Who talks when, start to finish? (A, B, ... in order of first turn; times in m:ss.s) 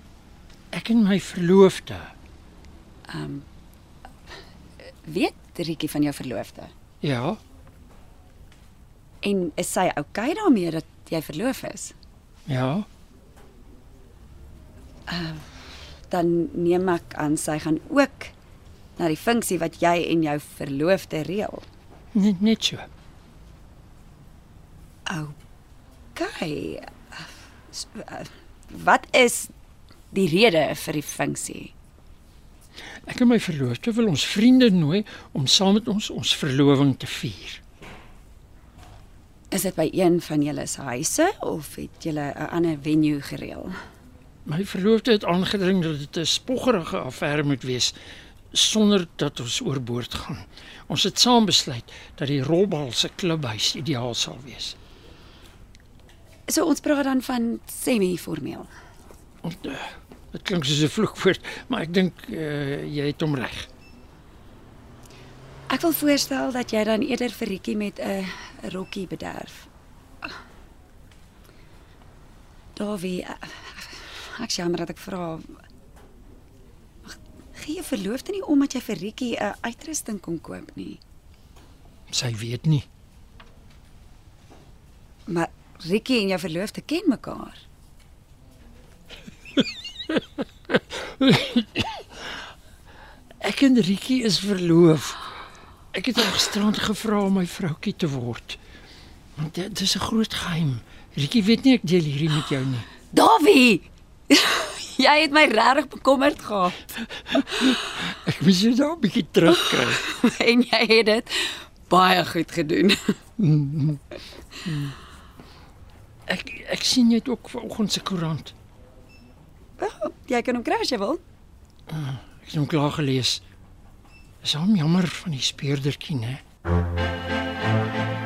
0:00.7-0:02.1 A
0:03.1-0:03.4 B
0:05.0-0:06.7 B
0:07.0-0:07.4 A
0:09.2-0:11.9 B
0:12.5-0:12.9 A
0:15.1-0:15.4 B
0:16.1-0:18.3 B
0:19.0-0:21.6 B
0:22.2-0:22.9 A
0:25.1-0:25.3 B
0:26.2-0:29.5 B
0:30.1-0:31.7 B
0:33.1-0:37.6 A
0:39.5-0:43.7 B
0:44.4-0:48.0 A
0:48.5-0:54.8 A
0:56.5-0:58.7 B
0:59.4-1:03.7 A
1:05.7-1:09.7 B
1:12.8-1:15.5 B
1:17.1-1:21.0 B
1:22.1-1:22.9 A
1:25.3-1:27.6 B
1:30.7-1:32.0 A
1:33.4-1:35.2 A
1:35.9-1:38.6 A
1:39.4-1:42.9 A
1:43.1-1:46.8 B
1:47.3-1:50.0 A
1:49.5-1:53.2 B
1:53.4-1:54.0 A
1:54.6-1:55.0 A
1:56.3-1:58.5 A
1:59.8-2:01.2 B
2:01.9-2:03.4 A
2:04.4-2:06.4 A